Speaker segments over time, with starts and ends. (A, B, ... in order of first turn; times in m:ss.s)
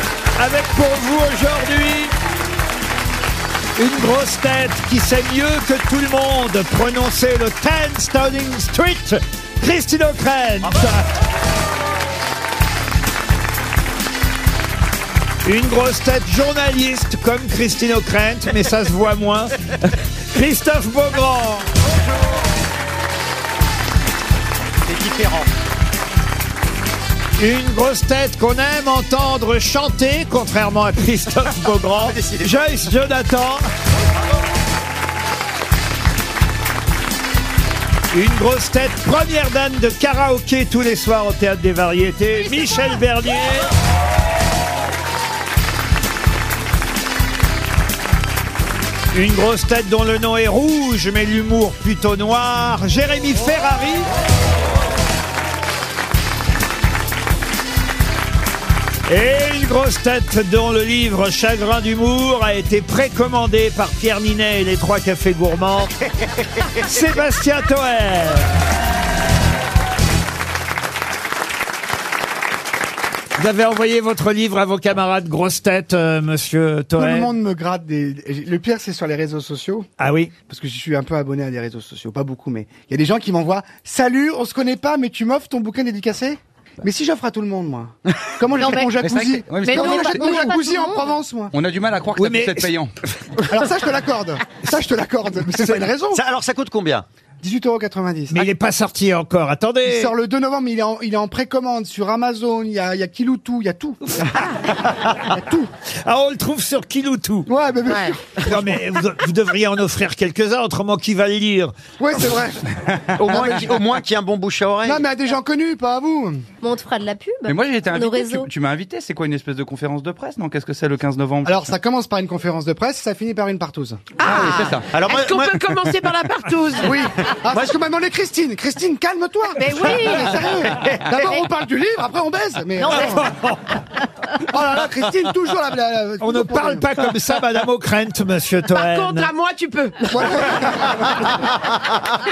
0:00.4-0:02.1 A
0:03.8-0:11.0 A
0:15.4-0:21.7 A
0:24.9-0:25.5 B
0:27.4-0:33.7 A
0:32.0-0:32.7 B
0:38.1-0:43.7 A
0:49.1-0:54.1 A
0:59.1-1:05.9 A
1:06.7-1:08.5 A
1:13.4-1:17.3 A
1:17.0-1:19.9 C
1:20.0-1:20.3 A
1:20.5-1:31.6 C
1:28.6-1:28.9 D
1:29.0-1:30.5 E
1:29.6-1:31.1 D
1:31.5-1:32.9 E
1:32.2-1:32.7 A
1:33.5-1:36.2 C
1:35.7-1:37.1 B
1:37.4-1:38.4 C
1:38.3-1:40.1 A
1:39.8-1:44.3 C
1:45.3-1:45.7 C
1:46.0-1:47.5 A
1:47.5-1:48.7 C
1:48.4-1:51.7 A
1:52.0-1:53.7 C
1:53.2-1:55.0 B
1:54.9-1:56.4 C
1:56.6-1:58.5 D
1:57.5-2:01.7 E
2:01.4-2:04.0 C
2:04.2-2:05.0 E
2:04.8-2:06.3 B
2:05.8-2:06.9 F
2:06.8-2:13.3 C
2:07.5-2:07.8 B
2:10.7-2:11.0 B
2:13.2-2:13.7 A
2:14.4-2:16.9 C
2:16.2-2:19.3 A
2:19.0-2:20.1 F
2:20.1-2:21.6 C